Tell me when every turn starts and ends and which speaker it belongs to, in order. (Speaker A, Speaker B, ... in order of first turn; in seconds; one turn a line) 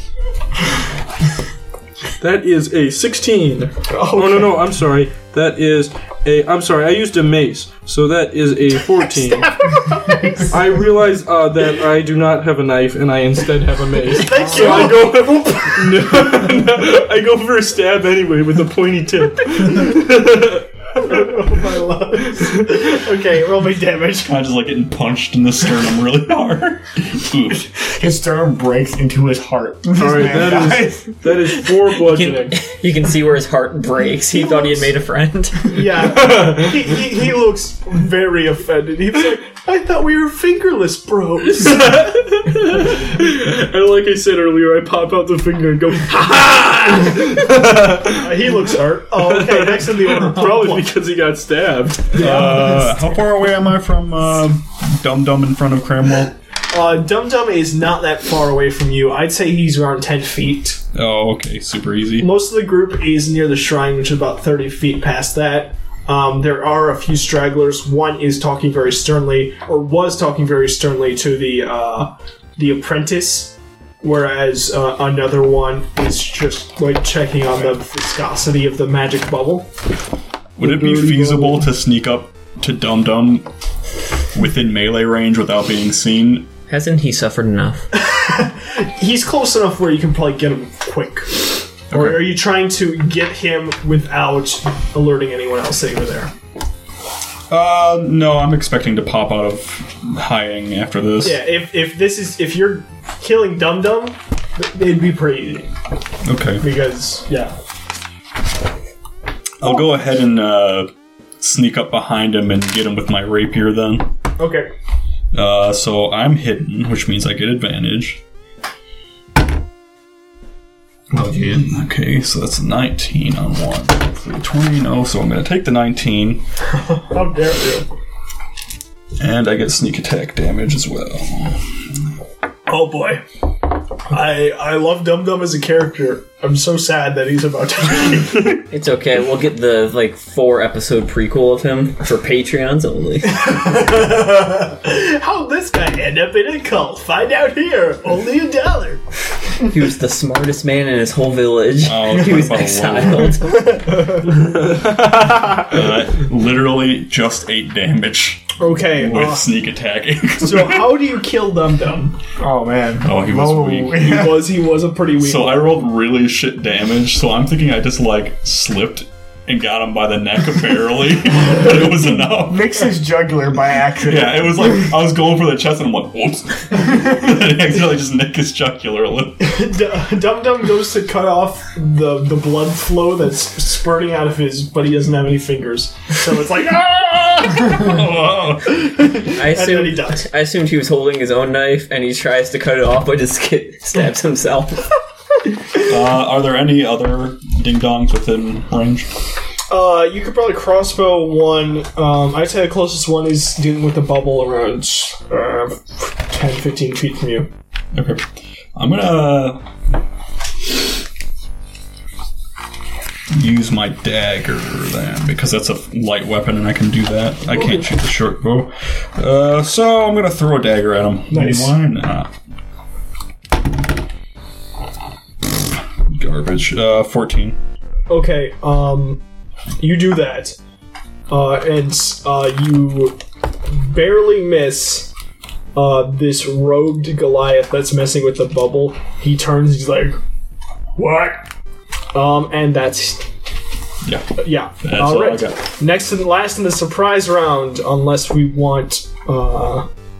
Speaker A: 2.2-9.5
Speaker B: 3.9-4.6
Speaker B: 9.3-10.6
Speaker A: 10.5-21.2
Speaker B: 14.2-15.5
Speaker C: 14.4-15.0
Speaker B: 21.0-24.3
Speaker D: 24.2-27.7
Speaker C: 27.8-31.4
Speaker A: 30.0-32.6
Speaker E: 32.0-35.8
Speaker B: 34.4-34.7
Speaker B: 35.7-41.9
Speaker A: 36.1-36.8
Speaker A: 41.5-52.2
Speaker B: 48.1-50.8
Speaker B: 52.1-53.0
Speaker D: 52.2-56.3
Speaker B: 56.7-60.8
Speaker D: 60.9-62.3
Speaker B: 62.2-79.7
Speaker D: 80.6-83.5
Speaker B: 80.6-81.6
Speaker D: 84.3-86.5
Speaker E: 86.7-87.9
Speaker B: 87.9-96.3
Speaker D: 91.9-92.3
Speaker D: 97.5-101.4
Speaker B: 101.2-105.7
Speaker D: 106.2-106.7
Speaker B: 106.6-107.5
Speaker D: 109.6-114.1
Speaker B: 114.4-114.7
Speaker D: 115.3-118.2
Speaker C: 121.1-121.5
Speaker D: 121.1-126.4
Speaker B: 126.8-127.9
Speaker D: 129.2-131.6
Speaker B: 132.7-133.2
Speaker B: 134.1-138.6
Speaker E: 138.7-143.6
Speaker B: 143.3-149.0
Speaker E: 149.7-154.0
Speaker D: 151.8-153.3
Speaker B: 153.5-154.3
Speaker A: 154.4-155.5
Speaker D: 155.2-160.9
Speaker B: 158.6-159.5
Speaker B: 160.4-162.2
Speaker C: 162.4-164.5
Speaker D: 163.0-164.3
Speaker B: 164.0-165.7
Speaker D: 165.2-172.7
Speaker C: 172.4-174.6
Speaker D: 174.1-179.5
Speaker B: 179.4-187.9
Speaker D: 187.4-189.2
Speaker B: 188.7-190.3
Speaker E: 189.3-194.9
Speaker D: 195.8-199.1
Speaker B: 199.7-207.5
Speaker D: 207.9-208.2
Speaker D: 208.8-209.6
Speaker D: 213.3-222.3
Speaker B: 221.3-221.8
Speaker D: 226.1-227.6
Speaker B: 228.1-229.2
Speaker B: 229.8-230.6
Speaker B: 231.3-235.1
Speaker B: 235.8-240.2
Speaker B: 241.0-241.4
Speaker B: 242.1-243.3
Speaker D: 244.1-245.6
Speaker B: 244.4-249.9